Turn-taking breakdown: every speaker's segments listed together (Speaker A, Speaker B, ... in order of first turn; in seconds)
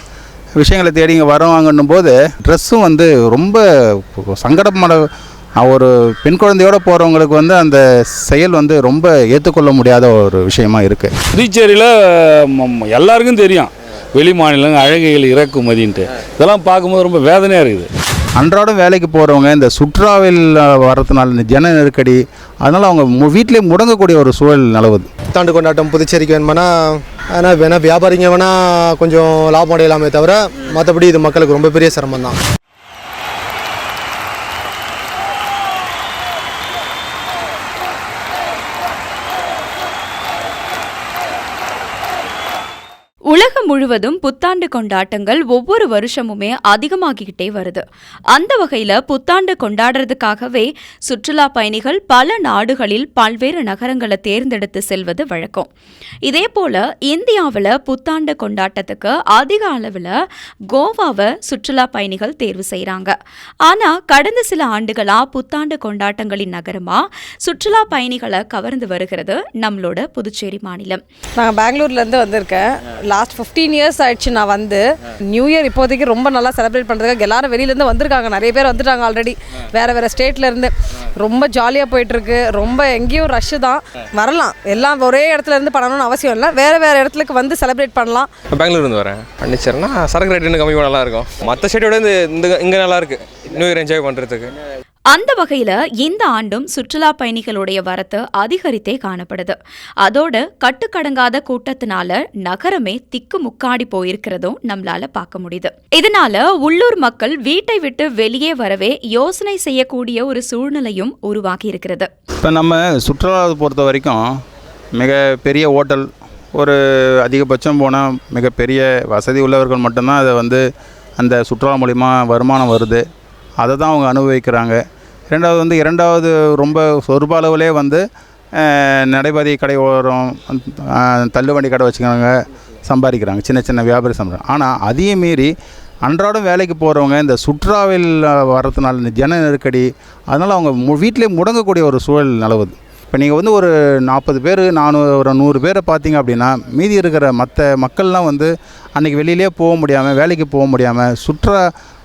Speaker A: 0.6-5.0, 5.6-11.1, 18.4-25.1, 112.4-114.2, 114.9-120.6, 121.2-123.0, 123.6-124.8, 125.3-128.0, 128.6-132.3, 132.8-135.5, 136.0-151.6
Speaker B: 11.3-17.9
Speaker C: 25.3-32.4
Speaker D: 43.3-55.7, 56.2-60.1, 60.7-63.1, 63.6-71.0, 95.1-112.1
Speaker E: 71.4-88.3
Speaker F: 88.5-94.5